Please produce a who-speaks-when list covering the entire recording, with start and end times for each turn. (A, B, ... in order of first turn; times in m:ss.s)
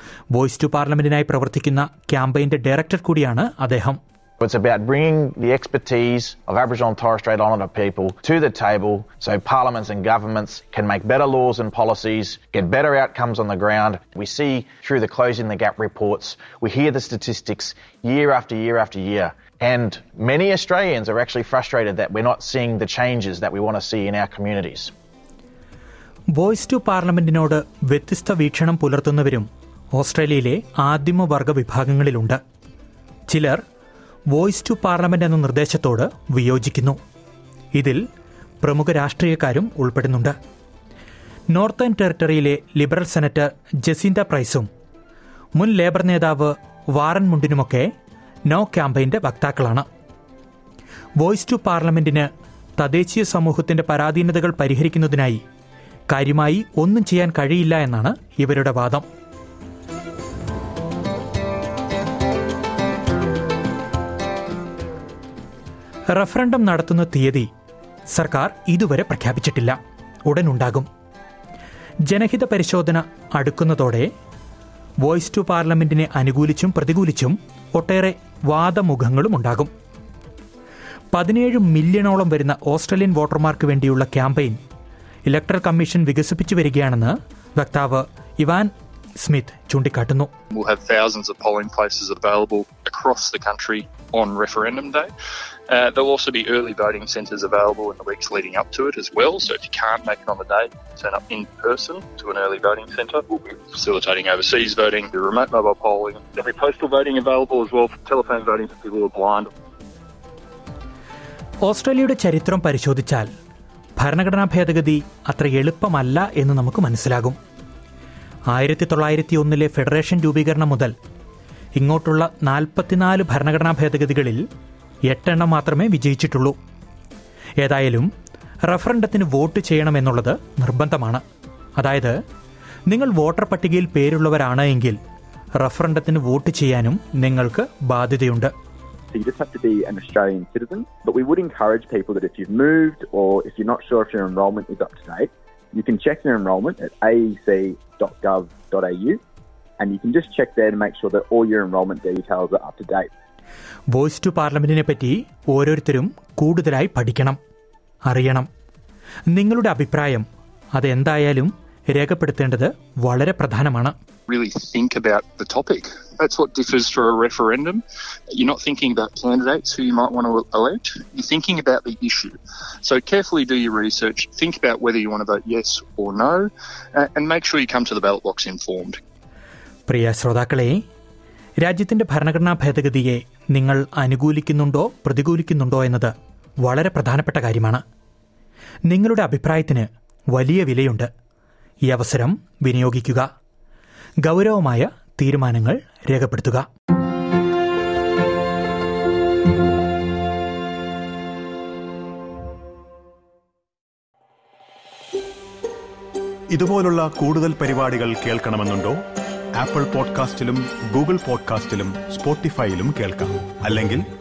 0:00.3-0:04.0 A
0:04.4-0:24.9 B
0:26.3-0:32.4 A
0:33.3-0:33.6 A
0:34.3-0:37.0 A
0:37.8-0:38.0 A
0:38.6-0:40.3 A
0:41.5-0:44.7 A
0:45.6-0:47.9 A
0:48.5-0:49.9 A
0:51.2-0:55.4 A
0:56.1-0:59.1 A
1:06.1-1:07.5 A
1:08.1-1:10.9 A
1:12.1-1:14.1 A
1:15.0-1:19.7 A
1:21.1-1:24.6 A
1:25.3-1:30.3 A
1:30.5-1:35.1 C
1:35.7-1:49.5 C
1:51.6-1:53.3 A
1:54.0-1:57.4 A
1:58.5-2:00.9 A
2:01.8-2:04.4 A
2:05.1-2:06.6 A
2:07.6-2:08.1 A
2:08.7-2:11.2 A
2:11.8-2:12.2 A
2:12.9-2:15.0 A
2:15.6-2:18.5 A
2:19.1-2:29.2 D
2:29.8-2:33.1 D
2:33.9-2:37.4 A
2:38.1-2:38.5 A
2:39.3-2:40.2 A
2:40.8-2:43.9 A
2:44.3-2:59.0 C
2:59.9-3:00.8 A
3:01.6-3:07.8 A
3:08.9-3:11.1 A
3:11.9-3:13.3 A
3:14.2-3:16.7 A
3:26.5-3:29.0 E
3:29.6-3:34.0 E